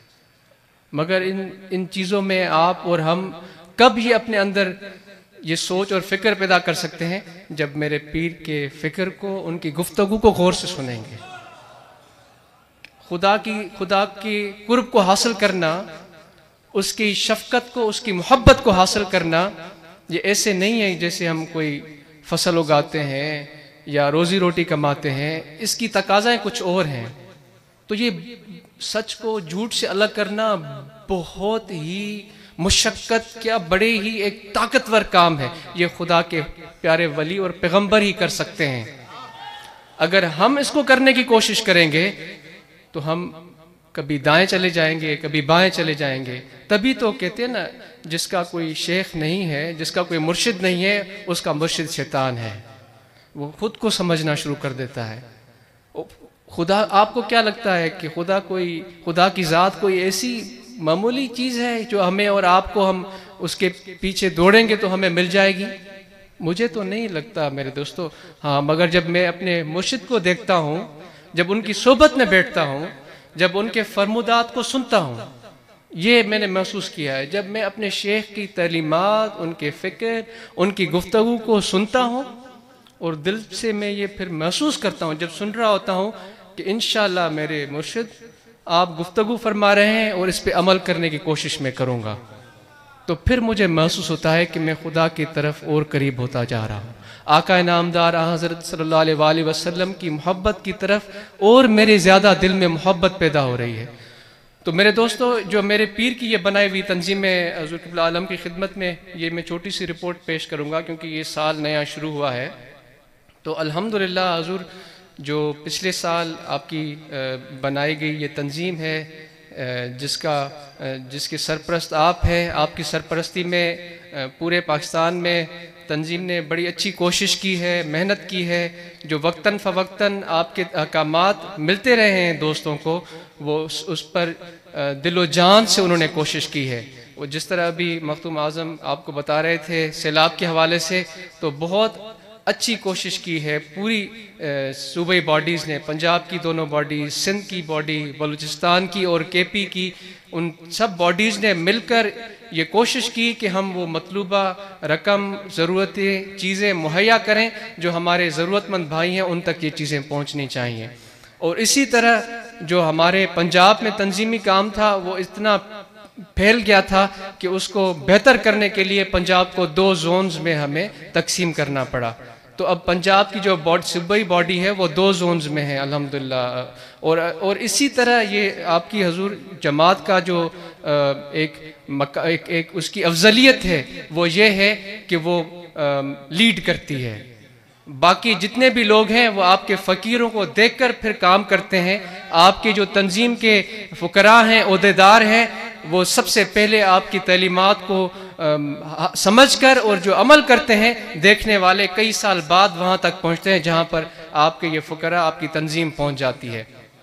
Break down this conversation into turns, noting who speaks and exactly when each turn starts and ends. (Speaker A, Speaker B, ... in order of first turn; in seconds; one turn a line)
Speaker A: 0.9-4.8
Speaker A: 5.4-11.2
Speaker A: 13.0-15.9
Speaker A: 16.7-19.5
Speaker A: 20.1-27.1
Speaker A: 27.9-38.9
Speaker A: 40.0-42.2
Speaker A: 42.9-43.4
Speaker A: 43.9-52.6
Speaker A: 53.3-55.2
Speaker A: 55.9-65.7
Speaker A: 66.4-75.3
Speaker A: 75.9-82.3
Speaker A: 83.0-88.1
Speaker A: 88.7-92.2
Speaker A: 93.0-103.9
Speaker A: 104.6-112.5
Speaker A: 113.4-165.7
Speaker A: 166.3-187.2
Speaker A: 187.8-206.7